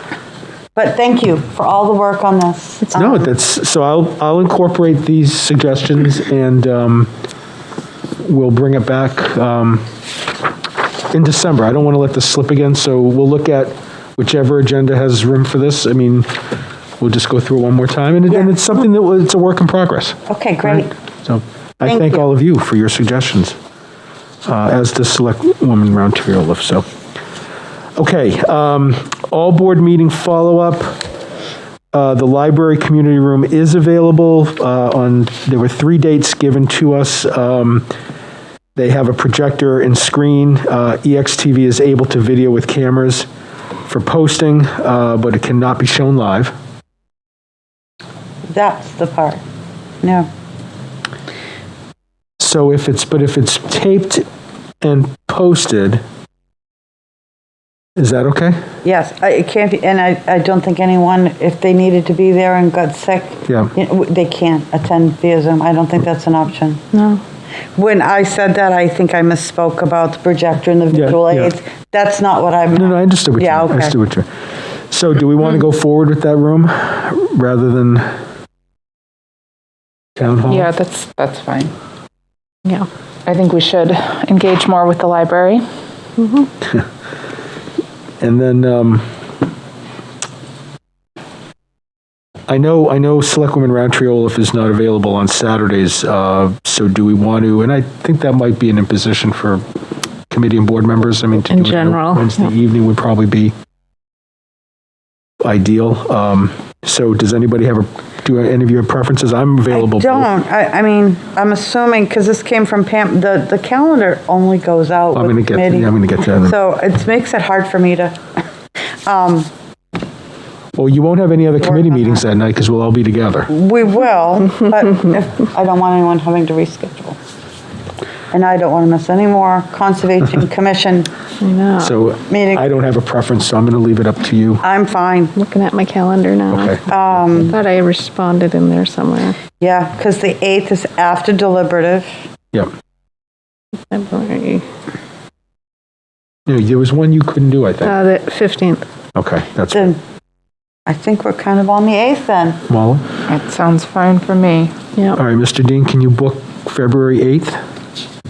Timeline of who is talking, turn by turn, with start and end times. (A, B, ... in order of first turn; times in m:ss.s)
0:00.7-0:03.3 A
0:02.9-0:07.1 B
0:08.2-0:09.8 B
0:11.1-0:16.3 B
0:17.0-0:23.6 B
0:20.3-0:20.9 A
0:21.8-0:22.2 A
0:24.4-0:26.8 B
0:28.0-0:31.0 B
0:31.9-0:37.9 B
0:38.7-0:43.3 B
0:43.9-0:46.5 B
0:48.5-0:49.4 A
0:50.0-0:50.3 A
0:52.4-0:54.2 B
0:54.8-0:56.0 B
0:58.0-0:58.6 B
0:58.8-1:06.8 A
1:06.9-1:07.2 C
1:07.8-1:13.9 A
1:10.9-1:11.5 B
1:12.7-1:14.3 B
1:14.9-1:18.1 B
1:20.2-1:20.7 B
1:20.5-1:21.7 D
1:23.2-1:25.6 D
1:26.2-1:26.5 C
1:28.2-1:29.0 B
1:32.5-1:39.6 B
1:40.3-1:43.5 B
1:41.5-1:42.4 C
1:45.4-1:50.3 B
1:49.7-1:58.2 A
1:55.1-1:56.5 B
1:59.0-1:59.5 A
2:00.7-2:03.5 B
2:01.6-2:02.2 A
2:03.5-2:07.2 A
2:08.3-2:11.1 A
2:11.4-2:12.0 C
2:11.8-2:14.6 B
2:12.3-2:12.6 A
2:14.6-2:15.3 A
2:15.3-2:16.8 C
2:16.5-2:16.9 B
2:16.9-2:17.5 A
2:17.3-2:19.4 C
2:19.6-2:22.1 A
2:23.9-2:24.6 C
2:26.5-2:28.0 B
2:27.8-2:28.8 C
2:29.1-2:29.9 B
2:29.7-2:30.0 A
2:30.9-2:32.6 A
2:32.7-2:33.0 B
2:33.3-2:34.7 D
2:35.1-2:37.6 B